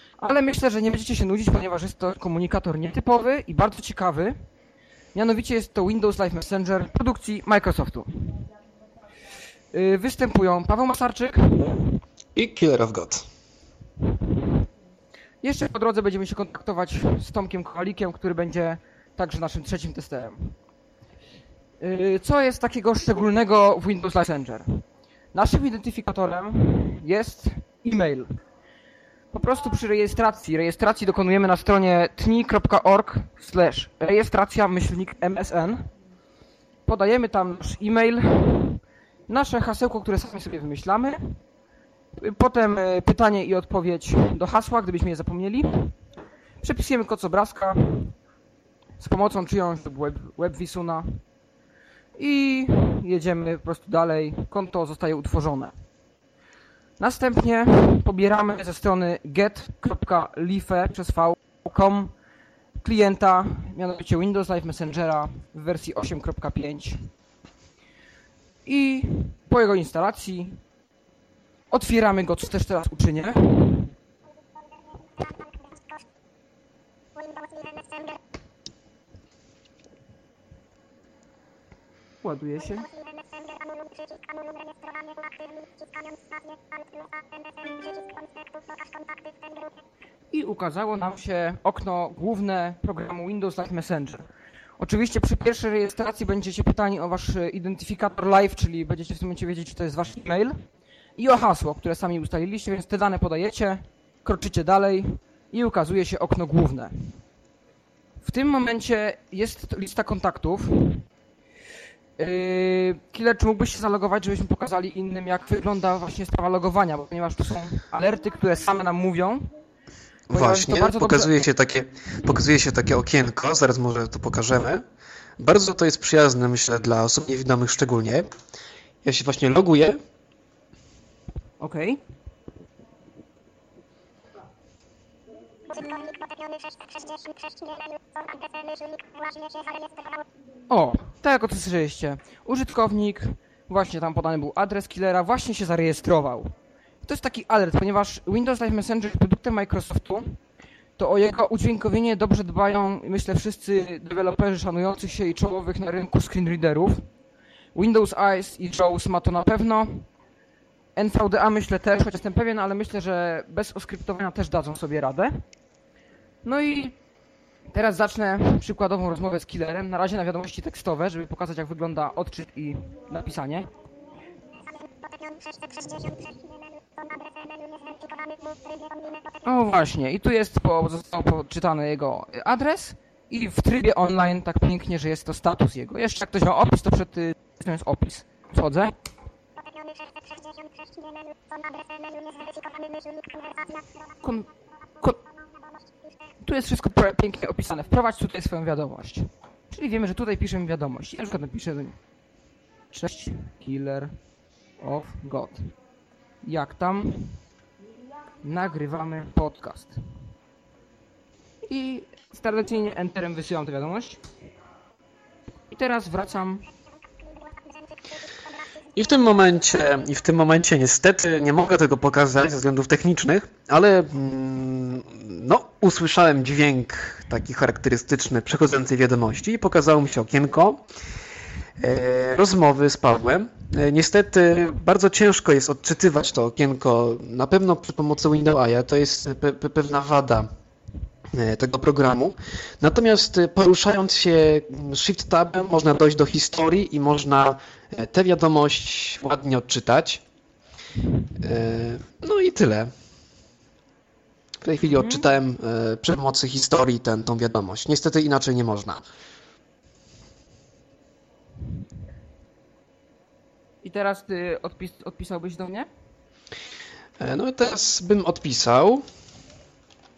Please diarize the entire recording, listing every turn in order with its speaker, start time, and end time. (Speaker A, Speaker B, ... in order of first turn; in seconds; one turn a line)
Speaker A: 0.2-4.3
Speaker A: 5.1-8.4
Speaker A: 9.7-11.9
Speaker B: 12.3-13.3
Speaker A: 15.4-20.6
Speaker A: 21.8-28.3
Speaker A: 29.3-35.9
Speaker A: 36.8-41.4
Speaker A: 42.2-46.0
Speaker A: 46.6-48.2
Speaker A: 49.0-51.2
Speaker A: 52.2-55.7
Speaker A: 57.0-62.1
Speaker A: 62.8-67.1
Speaker A: 68.7-70.6
Speaker A: 71.7-73.9
Speaker C: 77.2-78.2
Speaker A: 82.2-82.9
Speaker C: 83.0-86.3
Speaker C: 87.6-88.2
Speaker C: 88.8-89.3
Speaker A: 90.3-94.3
Speaker A: 94.8-100.6
Speaker A: 101.2-107.2
Speaker A: 108.2-111.0
Speaker A: 112.2-119.5
Speaker A: 120.3-121.4
Speaker B: 120.3-124.8
Speaker B: 125.4-128.3
Speaker B: 129.0-130.0
Speaker A: 131.6-132.0
Speaker C: 135.7-140.2
Speaker A: 140.7-146.5
Speaker A: 147.0-150.4
Speaker A: 151.0-157.1
Speaker A: 157.7-160.1
Speaker A: 160.9-165.4
Speaker A: 166.4-166.9
Speaker A: 167.7-173.7
Speaker C: 175.0-179.3
Speaker A: 179.4-188.9
Speaker C: 189.6-193.9
Speaker A: 194.2-194.5
Speaker A: 196.4-202.0
Speaker A: 202.9-204.1
Speaker A: 204.8-205.7
Speaker A: 206.4-207.4
Speaker A: 208.4-210.0
Speaker A: 211.7-214.2
Speaker A: 215.7-216.7
Speaker B: 218.9-230.8
Speaker B: 231.8-240.5
Speaker B: 241.3-250.2
Speaker B: 251.4-252.9
Speaker B: 254.6-259.0
Speaker A: 254.8-255.3
Speaker A: 263.8-265.9
Speaker B: 267.2-269.0